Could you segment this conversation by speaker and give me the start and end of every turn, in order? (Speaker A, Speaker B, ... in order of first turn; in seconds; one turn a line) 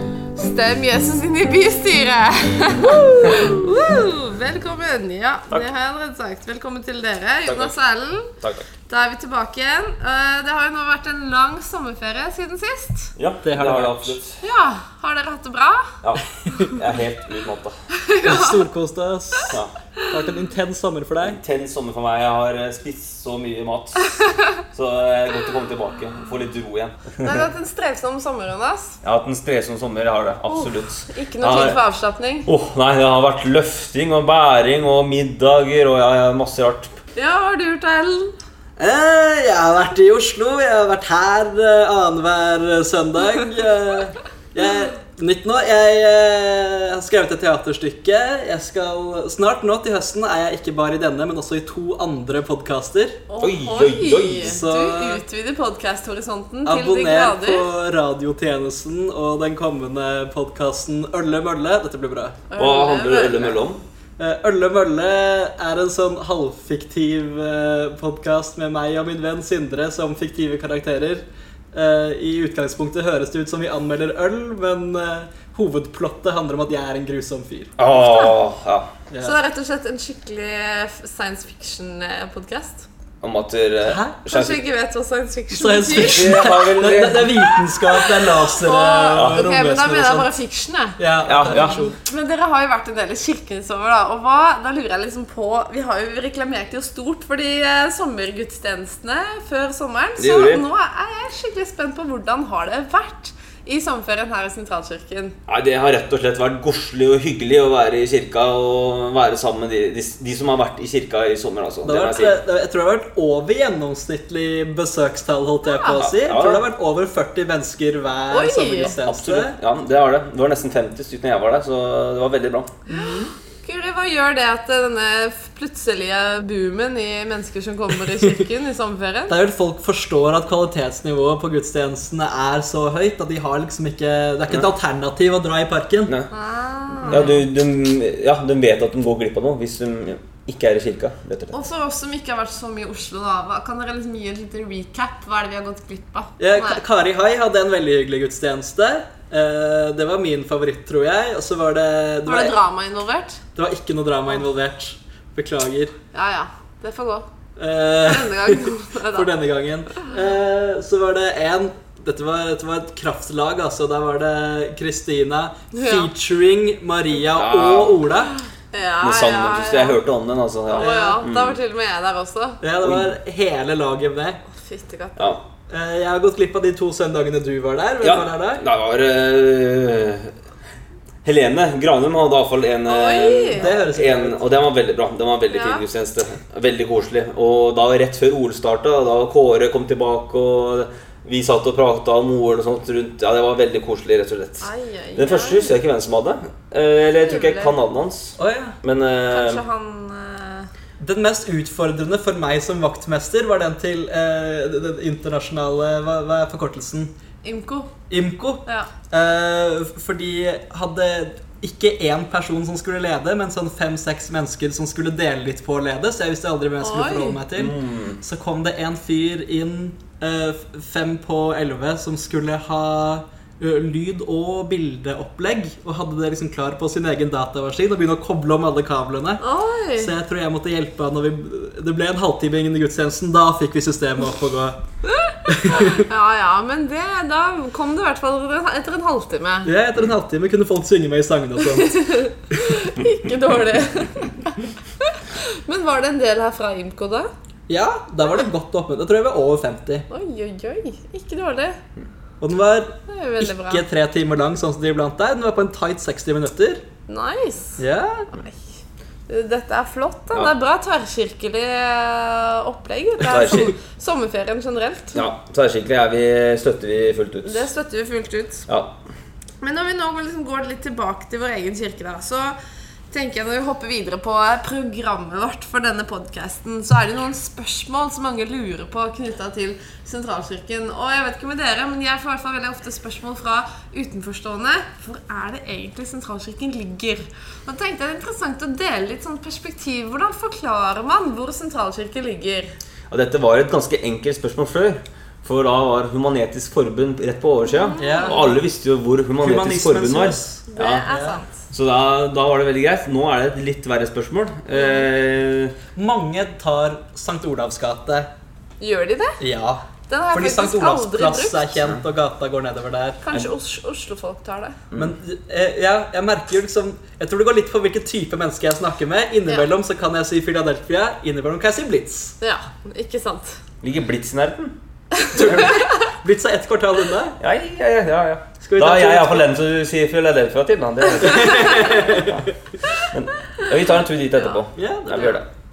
Speaker A: 0.3-8.3
Speaker B: 7.5-7.7
Speaker A: 8.9-13.1
Speaker B: 13.2-14.4
Speaker C: 13.4-14.2
Speaker A: 14.4-16.0
Speaker B: 16.0-17.7
Speaker A: 17.9-18.7
Speaker C: 18.2-21.4
Speaker B: 21.2-24.1
Speaker B: 24.7-27.4
Speaker A: 27.2-29.0
Speaker B: 29.0-31.8
Speaker A: 30.5-32.5
Speaker B: 32.5-37.0
Speaker A: 37.2-38.3
Speaker C: 38.8-53.2
Speaker A: 53.3-57.7
Speaker B: 53.4-54.6
Speaker C: 54.4-55.2
Speaker C: 56.6-62.4
Speaker A: 62.5-63.5
Speaker B: 62.6-63.8
Speaker C: 64.2-77.7
Speaker B: 77.8-78.9
Speaker A: 77.9-78.4
Speaker A: 79.2-82.9
Speaker B: 83.2-84.6
Speaker C: 83.9-84.2
Speaker A: 84.3-86.7
Speaker C: 85.5-90.3
Speaker B: 86.0-87.5
Speaker A: 87.5-91.0
Speaker B: 89.1-89.4
Speaker C: 91.0-92.0
Speaker B: 91.2-91.8
Speaker A: 91.6-105.4
Speaker B: 100.2-100.6
Speaker B: 105.5-112.4
Speaker C: 111.8-119.6
Speaker A: 115.6-116.0
Speaker B: 116.0-116.7
Speaker A: 118.3-118.9
Speaker B: 119.0-122.7
Speaker C: 122.9-123.3
Speaker A: 122.9-129.3
Speaker C: 129.3-136.1
Speaker A: 136.3-137.3
Speaker C: 137.1-137.3
Speaker B: 137.1-141.5
Speaker A: 141.5-146.8
Speaker C: 146.4-152.6
Speaker A: 152.2-153.4
Speaker C: 153.6-155.9
Speaker A: 156.1-157.3
Speaker C: 157.6-168.3
Speaker A: 158.0-159.3
Speaker A: 165.7-166.1
Speaker B: 167.3-168.0
Speaker A: 168.7-170.0
Speaker B: 169.0-171.6
Speaker A: 170.7-172.6
Speaker C: 170.8-171.2
Speaker C: 172.6-174.4
Speaker B: 172.8-173.1
Speaker A: 174.5-175.3
Speaker B: 175.2-175.4
Speaker C: 175.7-178.6
Speaker B: 178.0-180.3
Speaker B: 181.2-199.6
Speaker A: 182.8-183.7
Speaker C: 183.5-184.4
Speaker A: 185.5-185.8
Speaker A: 194.6-195.8
Speaker A: 197.2-197.7
Speaker C: 198.4-198.8
Speaker A: 199.3-200.7
Speaker C: 201.0-207.1
Speaker A: 207.4-207.9
Speaker C: 208.1-229.4
Speaker A: 216.8-217.4
Speaker B: 217.5-218.2
Speaker A: 229.4-230.1
Speaker C: 230.0-234.8
Speaker A: 235.2-239.7
Speaker C: 235.5-236.0
Speaker C: 239.6-242.0
Speaker A: 241.6-247.3
Speaker C: 247.7-250.1
Speaker A: 250.1-251.8
Speaker C: 252.4-256.8
Speaker A: 253.1-253.8
Speaker A: 257.1-257.8
Speaker C: 257.8-258.3
Speaker A: 258.3-258.6
Speaker A: 259.3-265.2
Speaker B: 263.3-263.7
Speaker B: 265.1-267.7
Speaker A: 267.4-268.7
Speaker B: 268.7-269.0
Speaker A: 269.6-272.6
Speaker A: 273.1-292.7
Speaker B: 293.1-301.1
Speaker A: 297.7-298.4
Speaker C: 298.0-298.5
Speaker C: 299.4-301.4
Speaker A: 300.7-301.6
Speaker B: 301.7-305.8
Speaker C: 305.9-308.3
Speaker A: 308.8-309.4
Speaker C: 309.4-313.2
Speaker A: 310.1-311.7
Speaker A: 313.2-314.8
Speaker C: 314.9-322.4
Speaker A: 322.4-323.6
Speaker B: 323.8-324.8
Speaker A: 325.2-325.9
Speaker C: 325.3-327.4
Speaker B: 327.4-332.5
Speaker C: 328.6-329.5
Speaker C: 331.2-332.4
Speaker B: 333.1-335.4
Speaker C: 334.8-335.4